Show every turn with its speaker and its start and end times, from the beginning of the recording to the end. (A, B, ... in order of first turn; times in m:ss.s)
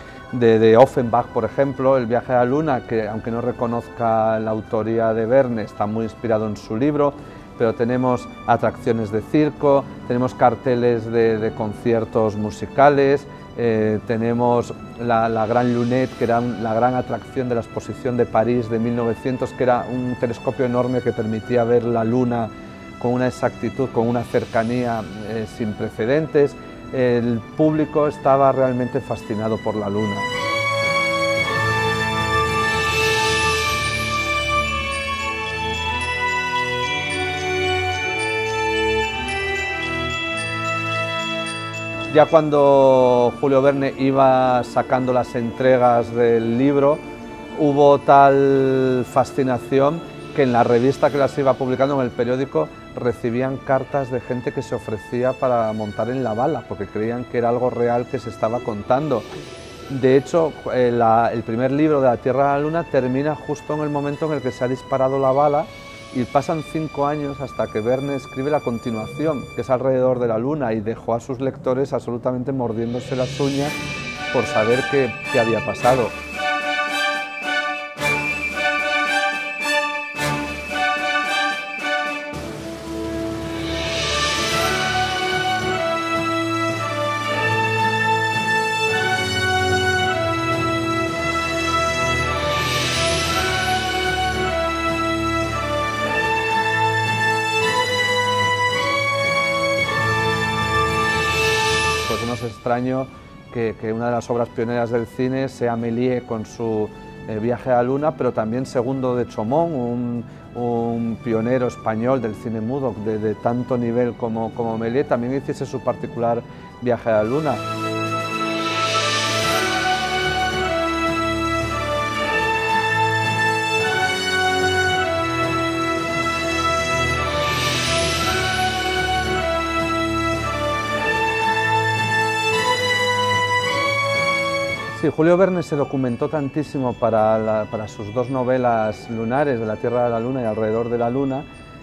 0:00.3-0:30.3 A
0:42.1-0:47.0 A
0:47.5-0:59.3 A
0:59.9-1:13.7 A
1:14.3-1:16.1 A
1:42.0-1:57.6 A
2:14.9-2:21.4 A